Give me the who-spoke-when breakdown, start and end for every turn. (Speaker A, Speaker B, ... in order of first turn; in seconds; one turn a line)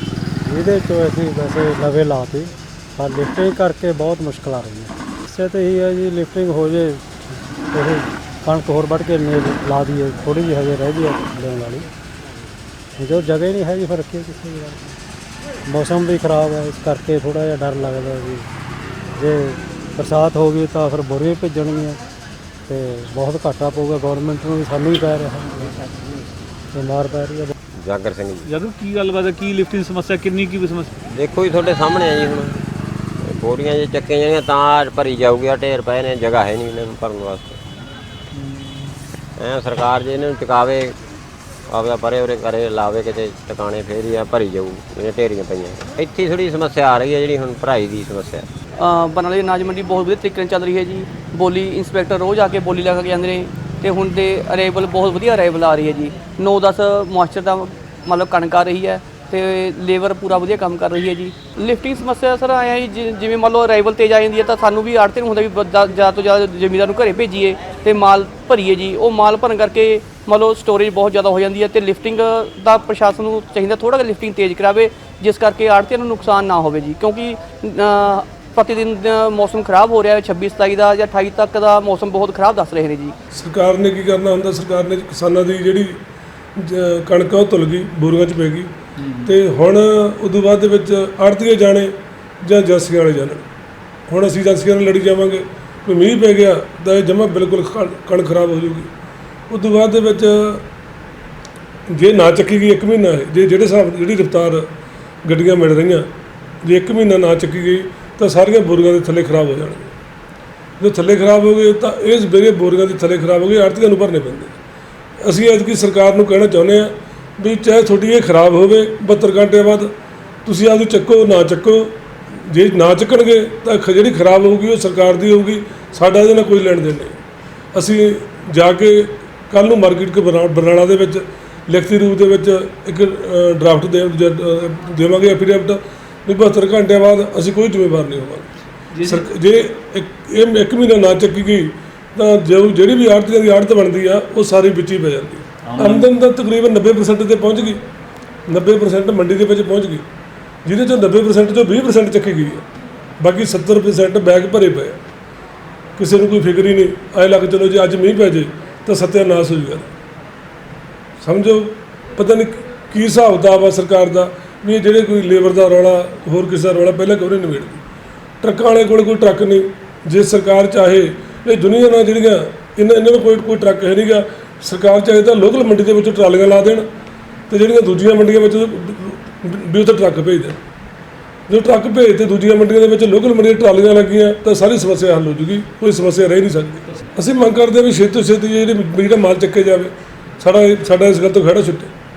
Speaker A: 0.4-11.9
Speaker A: 13.0-14.9
Speaker A: 15.7-18.5
Speaker A: 19.1-22.0
Speaker A: 22.7-25.8
Speaker A: 26.7-27.5
Speaker B: 27.8-28.5
Speaker C: 28.4-31.0
Speaker B: 31.0-32.6
Speaker B: 33.2-37.6
Speaker C: 38.3-38.9
Speaker B: 39.4-41.0
Speaker B: 41.7-48.5
Speaker D: 48.8-83.2
Speaker E: 83.3-86.0
Speaker E: 86.6-88.7
Speaker C: 89.0-89.3
Speaker E: 89.2-93.4
Speaker E: 94.1-98.9
Speaker E: 99.5-100.7
Speaker E: 101.9-104.7
Speaker E: 105.2-106.1
Speaker E: 106.6-109.9
Speaker E: 110.8-114.5
Speaker E: 115.2-119.9
Speaker E: 120.5-127.2
Speaker E: 127.7-147.8
Speaker C: 138.9-139.2
Speaker C: 145.7-146.1
Speaker E: 148.5-150.1
Speaker E: 150.7-152.7
Speaker E: 153.2-155.0
Speaker E: 156.0-159.9
Speaker E: 161.2-167.8
Speaker E: 168.4-176.9
Speaker E: 177.5-180.6
Speaker E: 181.5-191.9